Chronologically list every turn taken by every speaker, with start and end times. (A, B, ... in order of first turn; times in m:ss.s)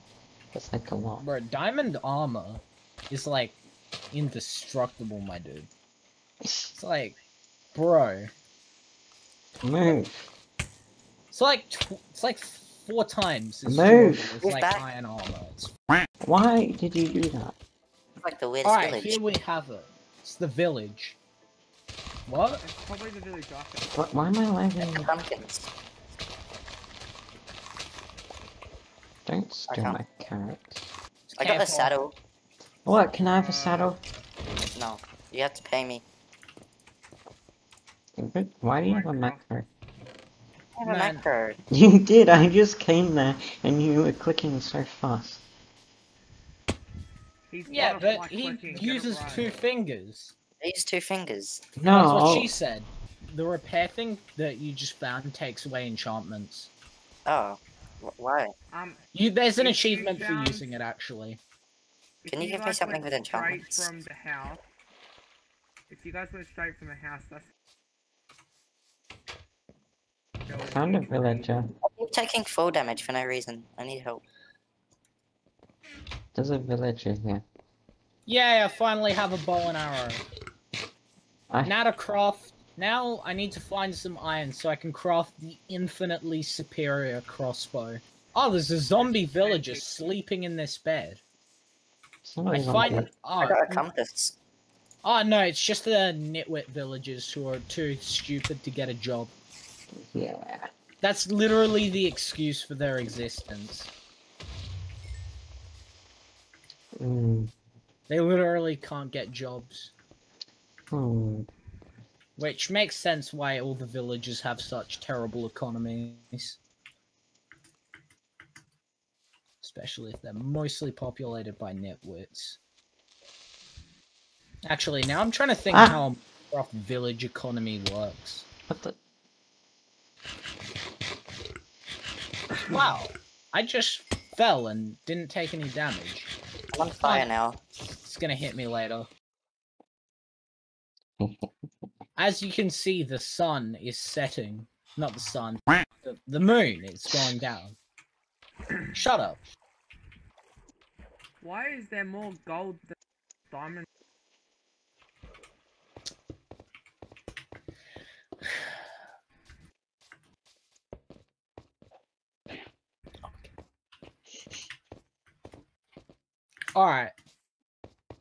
0:00.5-0:01.2 A
0:01.2-0:03.6 B
0:04.1-0:05.7 B
0:06.4-0:06.7 A
0:06.7-0:07.2 B
0:07.7-0:08.3 B
0:09.6-0:10.3 A
0:11.3-0:15.7 B
0:13.6-0:14.3 A
0:14.4-0:14.8 C
0:16.2-0:17.5 A
0:18.2-0:19.2 C
0:18.6-0:21.2 B
0:22.3-0:22.6 B
0:22.6-0:23.9 D
0:23.9-0:25.1 A
0:24.8-0:25.7 C
0:29.2-0:30.9 A
0:29.7-0:30.0 C
0:31.3-0:31.9 B
0:31.4-0:32.2 C
0:32.8-0:34.0 A
0:32.9-0:33.9 D
0:34.7-0:36.0 C
0:38.2-0:39.7 A
0:38.8-0:39.4 D
0:40.8-0:41.6 C
0:40.8-0:41.2 B
0:41.7-0:45.4 A
0:47.5-0:49.5 D
0:47.7-0:50.3 B
0:50.6-0:51.6 C
0:51.8-0:52.5 A
0:51.8-0:56.7 B
0:57.2-0:58.5 C
0:58.7-0:59.0 D
0:59.1-1:01.4 B
0:59.6-1:00.8 D
1:02.2-1:03.9 C
1:02.4-1:04.6 D
1:05.9-1:07.5 D
1:10.5-1:11.5 D
1:10.6-1:11.7 A
1:11.8-1:14.2 C
1:16.3-1:17.4 A
1:18.2-1:20.2 B
1:21.6-1:31.2 B
1:28.9-1:29.9 D
1:32.2-1:33.1 A
1:32.5-1:33.8 B
1:33.4-1:34.4 C
1:35.0-1:39.3 B
1:40.0-1:40.7 A
1:41.0-1:43.9 B
1:47.0-1:47.5 A
1:48.1-1:49.9 B
1:50.9-1:51.5 A
1:52.4-1:56.6 B
1:59.6-2:02.6 B
2:04.6-2:08.4 B
2:05.7-2:06.0 A
2:08.7-2:09.0 A
2:12.7-2:16.3 B
2:16.7-2:17.6 C
2:17.0-2:17.3 B
2:18.0-2:19.1 B
2:21.2-2:21.5 A
2:22.2-2:27.8 B
2:28.9-2:29.4 B
2:31.4-2:32.9 D
2:33.5-2:33.8 D
2:46.7-2:47.1 B